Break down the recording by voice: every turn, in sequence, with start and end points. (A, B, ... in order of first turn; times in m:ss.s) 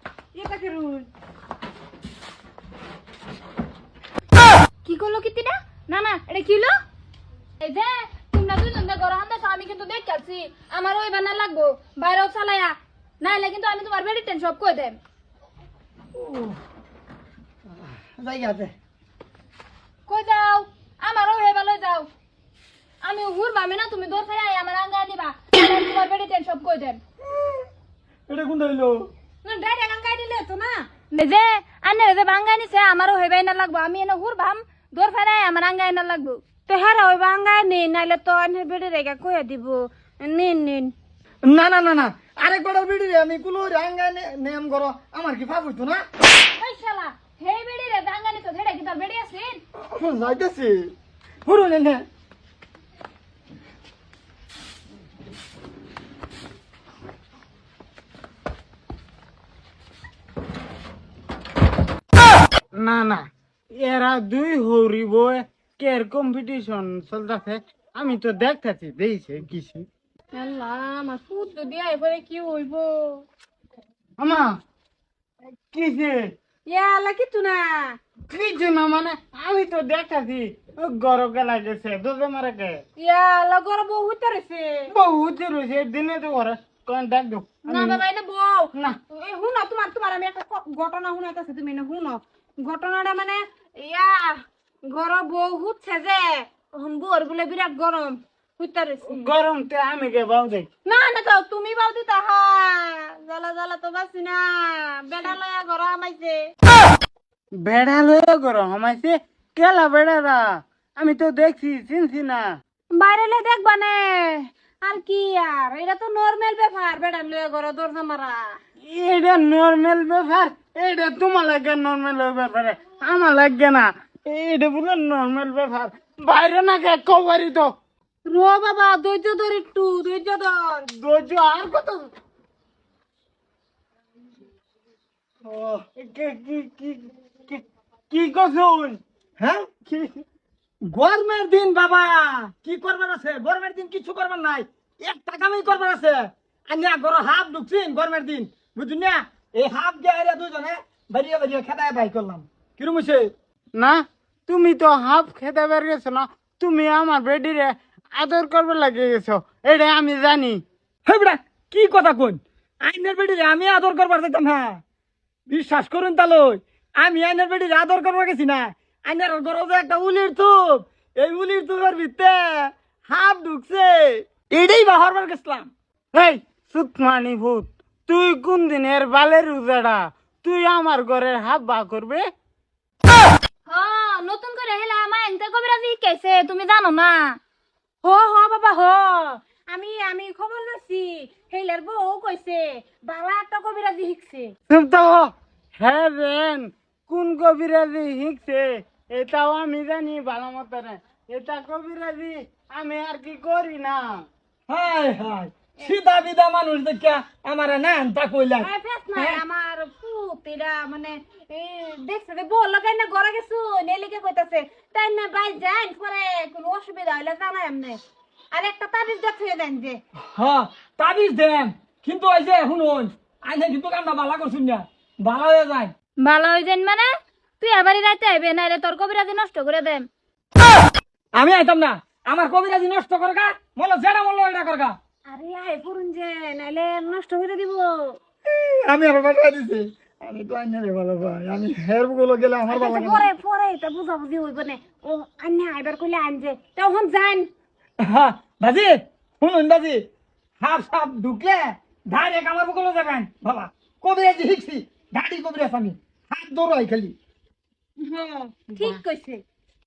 0:00.3-0:01.1 A
0:04.8-0:06.7 B
0:07.6-0:15.0 B
0:16.1-0:16.6 C
0:17.7-0:18.7 C
0:20.1-0:22.1 B
0:23.0-0:27.0 B
0:27.4-0:27.6 C
0:28.3-0:29.1 C
0:29.4-0:30.8 A
0:31.1-0:36.4 B
0:36.6-0:40.9 A
0:41.5-0:46.0 C
0:46.6-0:49.6 B
0:49.8-0:50.9 C
0:51.4-0:52.0 C
1:02.8-1:03.3 D
1:03.8-1:09.9 D
1:10.3-1:13.2 A
1:14.2-1:14.6 D
1:15.7-1:16.3 D
1:16.6-1:18.0 A
1:18.3-1:22.8 D
1:23.0-1:24.9 A
1:24.9-1:28.0 D
1:27.7-1:39.2 A
1:39.1-1:40.7 D
1:40.8-1:46.5 A
1:47.6-1:52.5 D
1:52.9-1:58.6 A
1:58.8-2:07.7 D
2:08.3-2:10.9 A
2:10.9-2:12.1 D
2:15.4-2:15.8 C
2:16.0-2:19.0 D
2:19.4-2:19.7 C
2:19.9-2:20.2 D
2:20.8-2:33.3 C
2:33.8-2:40.6 D
2:41.0-2:44.8 C
2:45.5-2:55.7 C
2:56.1-3:02.2 D
3:03.7-3:07.4 B
3:08.0-3:14.5 A
3:14.7-3:24.2 D
3:24.7-3:29.4 C
3:28.6-3:38.0 A
3:38.5-3:40.0 A
3:40.3-3:45.9 C
3:46.2-3:50.1 B
3:51.3-3:55.0 C
3:55.3-3:58.2 A
3:58.4-4:03.3 C
4:02.7-4:07.5 A
4:08.0-4:10.0 C
4:10.6-4:17.1 C
4:18.0-4:19.4 A